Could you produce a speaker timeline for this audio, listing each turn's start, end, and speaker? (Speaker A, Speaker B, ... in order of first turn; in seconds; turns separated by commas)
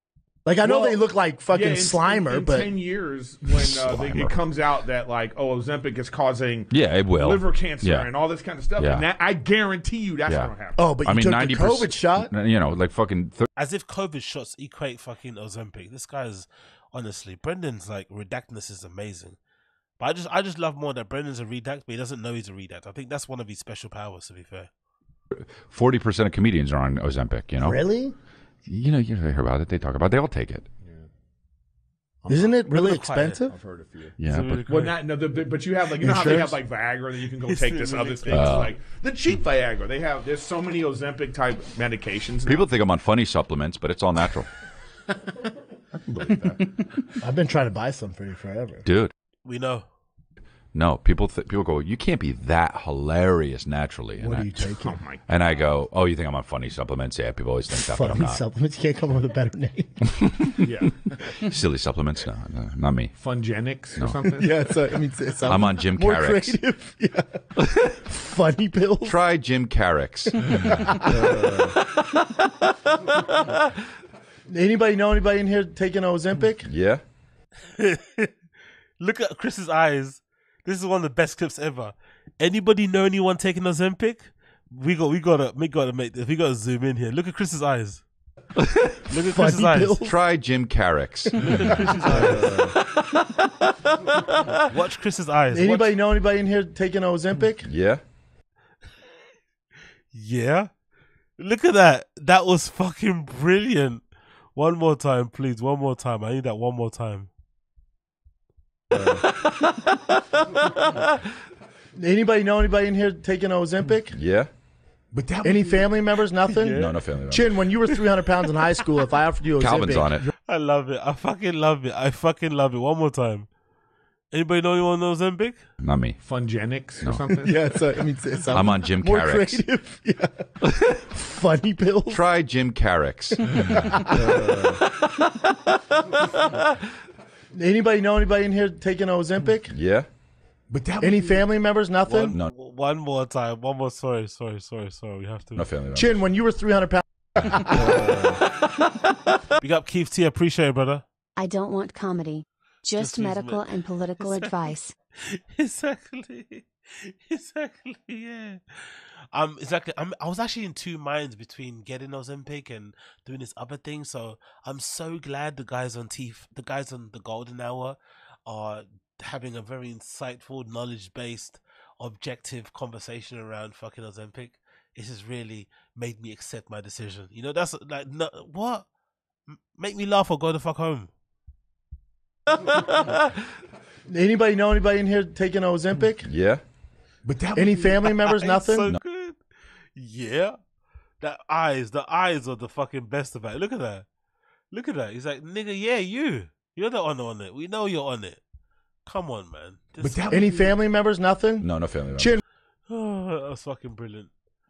Speaker A: 0.5-2.7, Speaker B: 0.6-10.8, Speaker C: 3.5-4.3, Speaker C: 6.7-8.1, Speaker C: 8.8-9.0, Speaker C: 10.3-13.5, Speaker A: 10.8-12.3, Speaker D: 13.6-19.4, Speaker D: 20.0-24.7, Speaker C: 25.3-27.8, Speaker A: 27.6-28.1, Speaker C: 28.6-30.6, Speaker B: 32.2-34.1, Speaker A: 32.3-33.5, Speaker D: 32.7-33.4, Speaker C: 34.2-34.6, Speaker D: 34.2-35.0, Speaker B: 34.7-42.7, Speaker A: 36.0-36.6, Speaker D: 37.5-38.6, Speaker C: 38.3-38.7, Speaker C: 42.5-44.5, Speaker B: 46.1-46.8, Speaker A: 47.2-48.8, Speaker C: 48.9-49.1, Speaker D: 49.4-49.8, Speaker C: 50.7-54.6, Speaker A: 54.2-55.0, Speaker B: 54.8-55.3, Speaker C: 55.3-58.4, Speaker A: 57.7-60.2, Speaker B: 60.6-61.0, Speaker C: 61.4-63.1, Speaker B: 63.1-64.5, Speaker C: 64.0-64.2, Speaker A: 64.3-69.2, Speaker C: 65.5-66.6, Speaker C: 67.6-67.9, Speaker C: 69.0-72.5, Speaker A: 70.5-71.7, Speaker A: 74.5-76.7, Speaker C: 76.7-77.0, Speaker D: 77.7-78.3, Speaker D: 79.0-88.0, Speaker D: 89.0-90.0, Speaker A: 89.2-90.2, Speaker C: 90.0-91.4, Speaker D: 91.4-92.7, Speaker A: 91.4-92.7, Speaker C: 92.1-92.8, Speaker D: 94.5-95.9, Speaker A: 95.5-97.7, Speaker C: 97.6-98.0, Speaker D: 100.1-100.7, Speaker D: 101.4-104.0, Speaker D: 104.5-107.3, Speaker C: 109.0-109.2, Speaker A: 111.9-114.2, Speaker C: 114.1-114.5, Speaker B: 115.1-115.9, Speaker A: 115.4-120.2, Speaker D: 116.5-117.1, Speaker C: 116.7-117.6, Speaker C: 119.6-120.3, Speaker D: 120.5-123.5, Speaker D: 124.3-125.6, Speaker C: 125.8-126.2, Speaker B: 126.2-127.7, Speaker A: 127.4-132.2, Speaker C: 128.5-129.6, Speaker C: 130.7-131.0, Speaker C: 132.1-134.8, Speaker A: 133.5-134.7, Speaker B: 133.6-134.0, Speaker A: 137.5-139.7, Speaker C: 139.7-140.1, Speaker B: 140.7-141.4, Speaker A: 141.0-142.3, Speaker D: 142.1-145.7, Speaker C: 145.6-146.2, Speaker A: 145.9-147.9, Speaker C: 147.4-148.4, Speaker D: 149.6-151.0, Speaker E: 151.4-154.9, Speaker D: 152.9-178.8, Speaker D: 179.5-181.1, Speaker A: 184.1-186.3, Speaker C: 186.2-186.6, Speaker B: 187.2-188.2, Speaker A: 187.5-188.9, Speaker D: 188.3-189.4, Speaker D: 189.9-190.6, Speaker D: 191.2-194.1, Speaker D: 194.7-198.4, Speaker D: 199.0-200.2, Speaker B: 200.0-200.7, Speaker A: 200.3-202.4, Speaker C: 201.6-202.3, Speaker D: 202.9-204.3